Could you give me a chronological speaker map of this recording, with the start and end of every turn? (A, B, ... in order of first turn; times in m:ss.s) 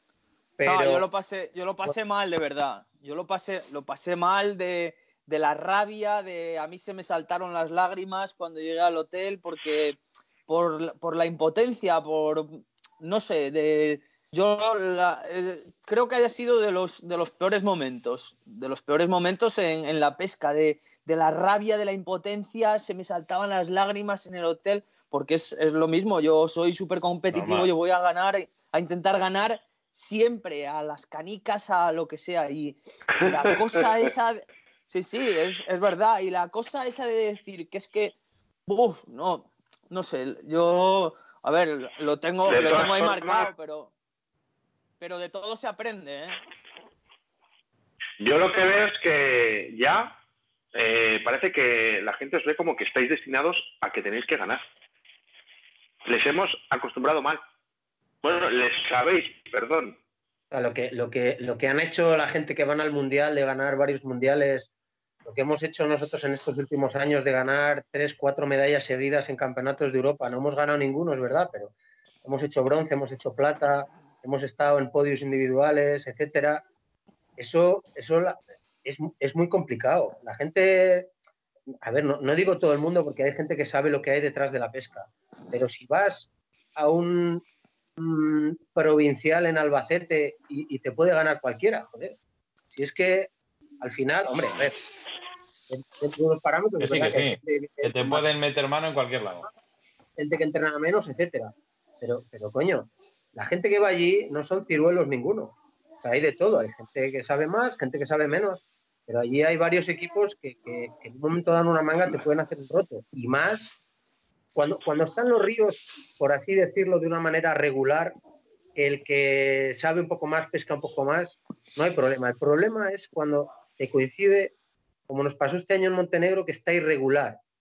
0:00.6-0:01.0 A
0:00.6-0:38.2 B
0:27.3-0:27.7 C
0:33.2-0:33.5 D
0:38.7-0:43.9 B
0:42.4-0:43.5 D
0:45.0-0:46.4 B
0:48.2-0:50.1 D
0:50.7-0:54.6 D
0:56.0-0:57.4 D
0:58.2-1:00.0 D
1:00.5-1:04.7 A
1:05.2-1:16.6 A
1:17.4-1:21.1 A
1:21.8-1:27.4 A
1:28.0-1:32.2 A
1:32.7-1:34.8 A
1:35.7-1:38.2 A
1:36.8-1:39.5 C
1:40.2-1:53.7 A
1:54.5-1:58.2 A
1:58.8-2:04.5 A
2:05.1-2:07.4 A